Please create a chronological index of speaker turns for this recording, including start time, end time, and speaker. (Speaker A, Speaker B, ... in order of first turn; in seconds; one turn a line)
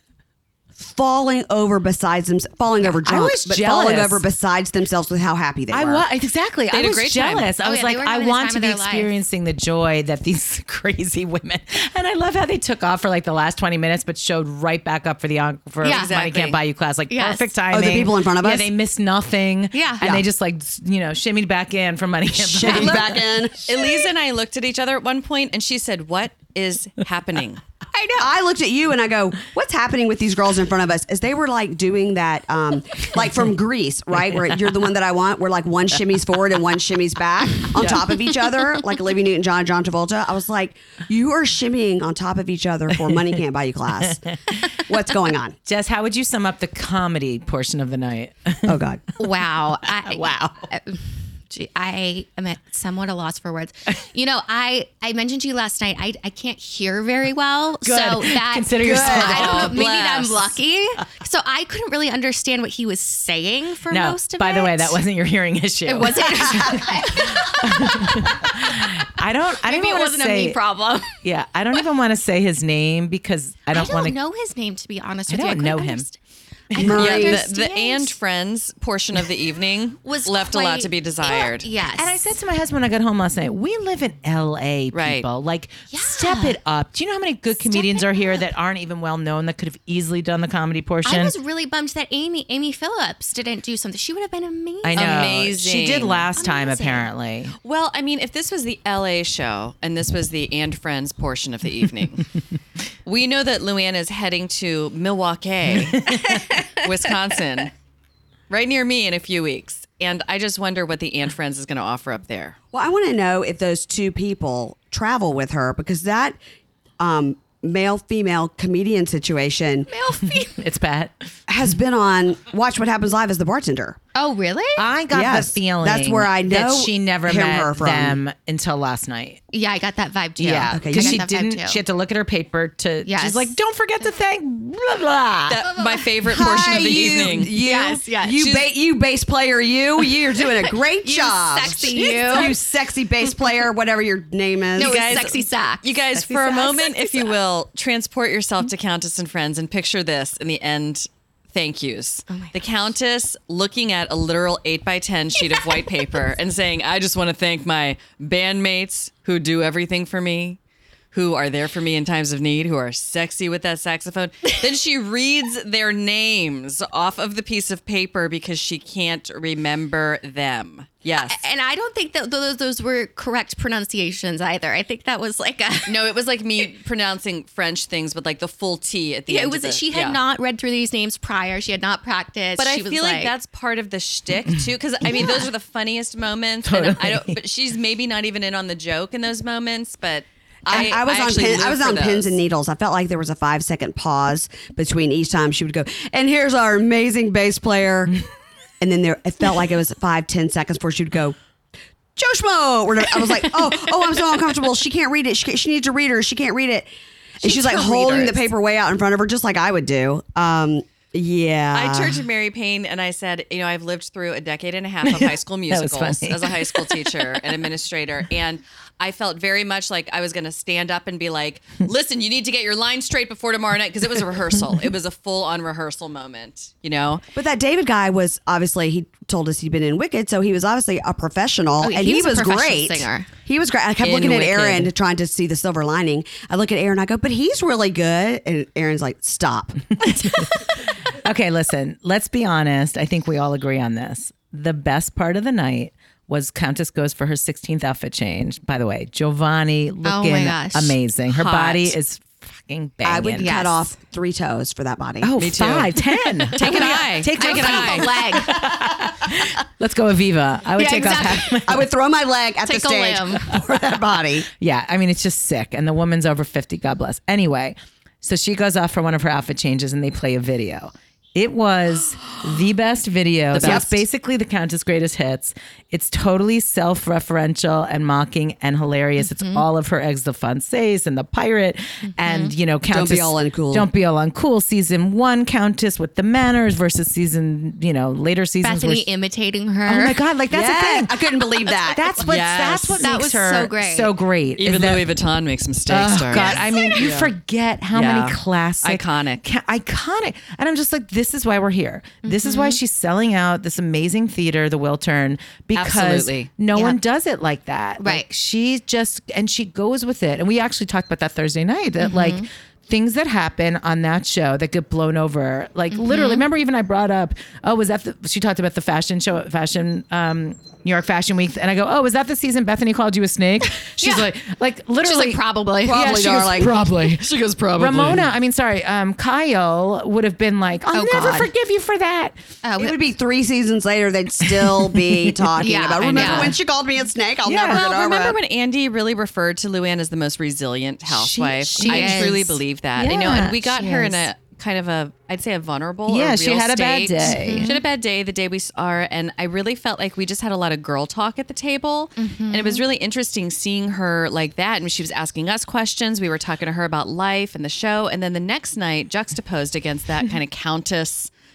Speaker A: 0.8-6.0
Speaker B: 2.8-4.2
Speaker B: 5.7-23.2
Speaker C: 6.7-7.5
Speaker D: 7.6-9.2
Speaker D: 15.8-16.1
Speaker C: 15.8-16.6
Speaker D: 17.1-17.5
Speaker A: 17.7-18.7
Speaker D: 19.7-20.1
Speaker A: 22.4-23.8
Speaker D: 22.7-23.1
Speaker C: 23.6-27.6
Speaker D: 27.9-28.3
Speaker A: 28.2-45.6
Speaker B: 44.0-44.6
Speaker B: 45.6-48.8
Speaker A: 48.6-49.1
Speaker D: 49.2-65.0
Speaker B: 50.0-50.7
Speaker B: 57.8-59.9
Speaker A: 58.9-59.5
Speaker C: 59.0-60.5
Speaker B: 63.9-70.6
Speaker D: 65.8-68.9
Speaker A: 66.6-66.9
Speaker D: 69.5-71.2
Speaker B: 71.2-74.2
Speaker D: 73.7-76.2
Speaker B: 75.3-76.0
Speaker B: 76.7-77.0
Speaker A: 76.7-77.5
Speaker D: 76.7-78.2
Speaker C: 77.0-81.7
Speaker D: 80.0-82.2
Speaker B: 81.9-91.3
Speaker C: 84.9-85.2
Speaker D: 85.9-86.6
Speaker D: 87.6-88.3
Speaker D: 91.0-95.4
Speaker B: 94.8-97.5
Speaker C: 94.9-96.3
Speaker D: 96.3-97.1
Speaker C: 97.6-102.3
Speaker C: 103.0-107.7
Speaker B: 106.0-106.5
Speaker D: 106.3-106.7
Speaker C: 108.5-112.5
Speaker A: 112.7-116.4
Speaker A: 117.0-119.9
Speaker D: 119.9-120.6
Speaker B: 120.2-121.3
Speaker A: 121.5-124.0
Speaker D: 124.1-124.9
Speaker B: 124.8-129.4
Speaker A: 125.1-128.2
Speaker D: 129.5-131.8
Speaker B: 130.4-135.6
Speaker A: 130.7-131.2
Speaker D: 133.0-133.5
Speaker C: 135.5-137.5
Speaker D: 135.7-138.7
Speaker A: 136.2-145.0
Speaker D: 140.4-142.6
Speaker C: 142.0-142.5
Speaker C: 144.7-160.6
Speaker D: 144.8-147.3
Speaker D: 152.3-152.5
Speaker D: 155.4-156.1
Speaker C: 161.1-171.4
Speaker D: 171.2-176.1
Speaker C: 175.9-180.2
Speaker D: 179.3-183.3
Speaker C: 182.6-192.4
Speaker B: 186.6-187.4
Speaker A: 190.7-198.2
Speaker A: 198.8-201.3
Speaker A: 202.2-206.9
Speaker A: 207.4-212.2
Speaker D: 207.4-208.5
Speaker C: 211.7-227.2
Speaker B: 215.0-217.0
Speaker A: 227.3-240.4
Speaker D: 231.8-233.3
Speaker C: 234.0-234.9
Speaker B: 240.0-253.6
Speaker D: 250.0-250.9
Speaker C: 251.3-251.9
Speaker A: 253.0-255.4
Speaker D: 253.4-253.8
Speaker B: 255.2-261.9
Speaker C: 255.4-258.2
Speaker D: 256.5-258.7
Speaker D: 260.7-261.7
Speaker A: 261.3-264.5
Speaker D: 262.7-263.5
Speaker B: 264.5-289.1
Speaker C: 273.5-273.9
Speaker A: 273.6-274.0
Speaker D: 279.2-279.6
Speaker D: 282.1-282.5
Speaker A: 282.9-283.9
Speaker D: 288.6-290.2
Speaker B: 289.9-295.0
Speaker A: 290.5-292.1
Speaker C: 292.2-293.1
Speaker D: 293.0-294.1
Speaker C: 294.6-296.6
Speaker B: 295.9-332.4
Speaker D: 296.3-297.1
Speaker A: 296.9-297.3
Speaker C: 297.9-299.4
Speaker D: 302.2-302.8
Speaker C: 305.7-306.5
Speaker D: 308.0-308.3
Speaker D: 312.0-312.5
Speaker D: 315.9-316.4
Speaker D: 324.0-324.3
Speaker D: 325.0-326.2
Speaker A: 325.9-326.8
Speaker C: 327.0-328.3
Speaker D: 330.9-331.5
Speaker D: 332.6-333.0
Speaker A: 332.8-338.4
Speaker D: 335.6-336.6
Speaker C: 335.9-336.6
Speaker B: 337.4-337.9
Speaker C: 337.6-361.3
Speaker B: 341.1-342.3
Speaker D: 341.8-342.6
Speaker B: 342.9-343.7
Speaker D: 343.7-344.3
Speaker B: 346.1-347.7
Speaker D: 347.2-347.8
Speaker D: 352.2-352.8